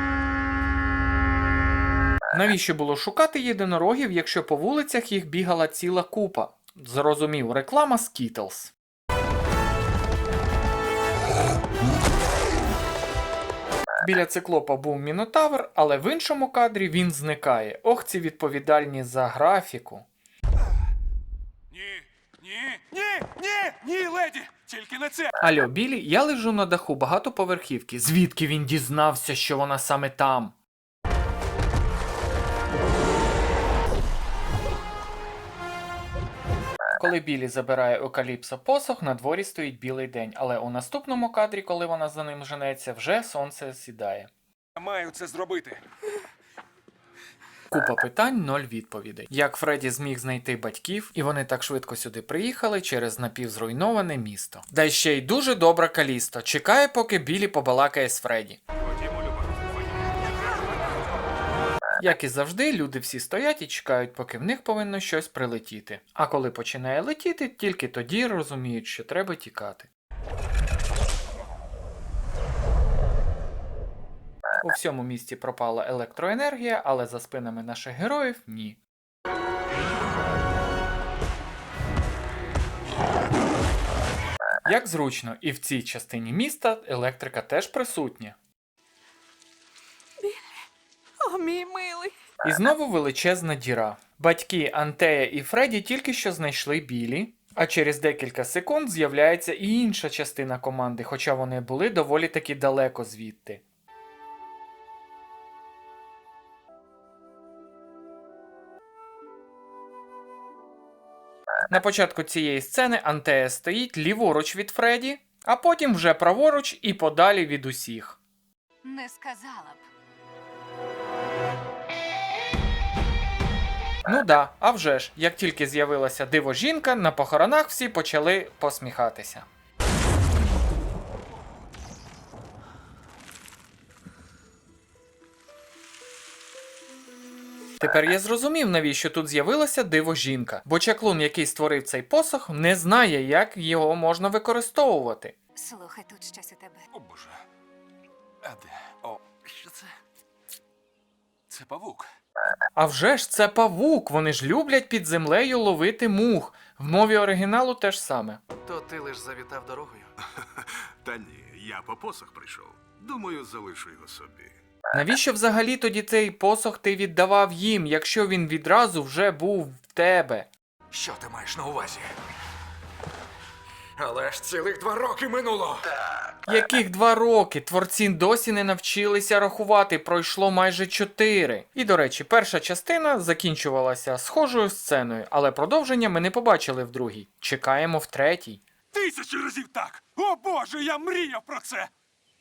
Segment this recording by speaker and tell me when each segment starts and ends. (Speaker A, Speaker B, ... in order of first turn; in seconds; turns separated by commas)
Speaker A: 2.3-8.7, Speaker A: 14.0-20.1, Speaker B: 21.7-25.3, Speaker A: 25.4-30.6, Speaker A: 37.0-44.3, Speaker B: 44.8-45.8, Speaker A: 47.7-58.6, Speaker B: 58.8-60.2, Speaker A: 62.0-69.9, Speaker A: 74.6-78.8, Speaker A: 84.7-88.4, Speaker A: 92.4-103.6, Speaker A: 111.7-118.2, Speaker C: 118.8-119.8, Speaker A: 124.1-129.5, Speaker A: 137.8-145.3, Speaker C: 145.6-146.9, Speaker B: 146.9-147.4, Speaker B: 148.4-149.5, Speaker B: 151.5-152.1, Speaker A: 152.8-158.4, Speaker D: 158.6-160.1, Speaker E: 160.4-164.6, Speaker A: 164.9-170.5, Speaker D: 170.9-172.0, Speaker D: 174.0-175.8, Speaker A: 176.4-188.6, Speaker B: 188.9-191.9